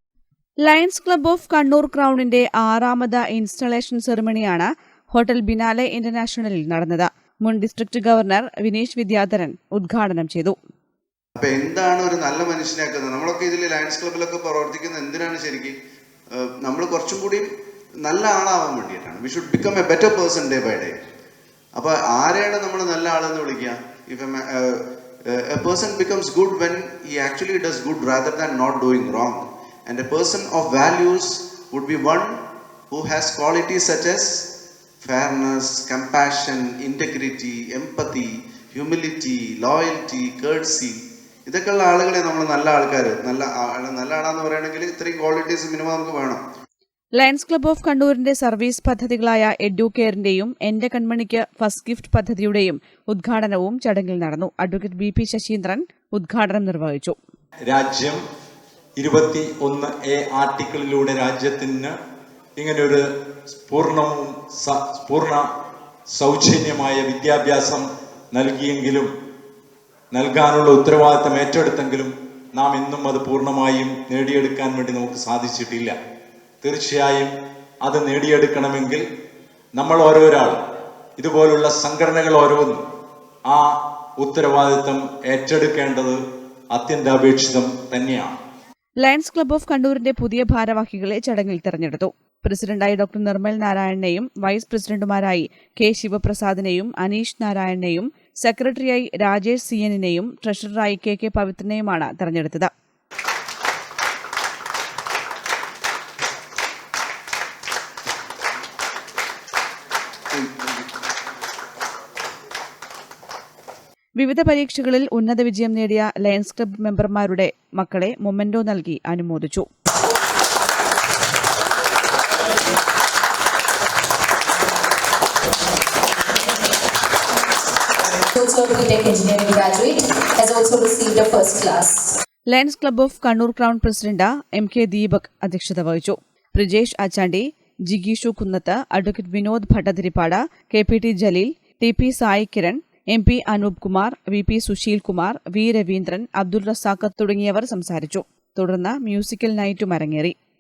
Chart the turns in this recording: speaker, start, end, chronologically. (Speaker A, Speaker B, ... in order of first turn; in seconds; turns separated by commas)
Speaker A: 0.6-10.6, Speaker B: 11.4-15.8, Speaker B: 16.3-17.5, Speaker B: 18.0-21.0, Speaker B: 21.8-32.4, Speaker B: 32.9-34.4, Speaker B: 35.0-46.4, Speaker A: 47.2-57.1, Speaker C: 57.7-58.2, Speaker C: 59.0-61.9, Speaker C: 62.6-63.0, Speaker C: 63.7-65.4, Speaker C: 66.1-69.1, Speaker C: 70.1-76.0, Speaker C: 76.6-77.3, Speaker C: 77.8-79.0, Speaker C: 79.8-80.6, Speaker C: 81.2-82.8, Speaker C: 84.2-86.2, Speaker C: 86.7-88.4, Speaker A: 89.0-102.7, Speaker A: 114.2-119.7, Speaker D: 128.3-132.1, Speaker A: 132.5-150.3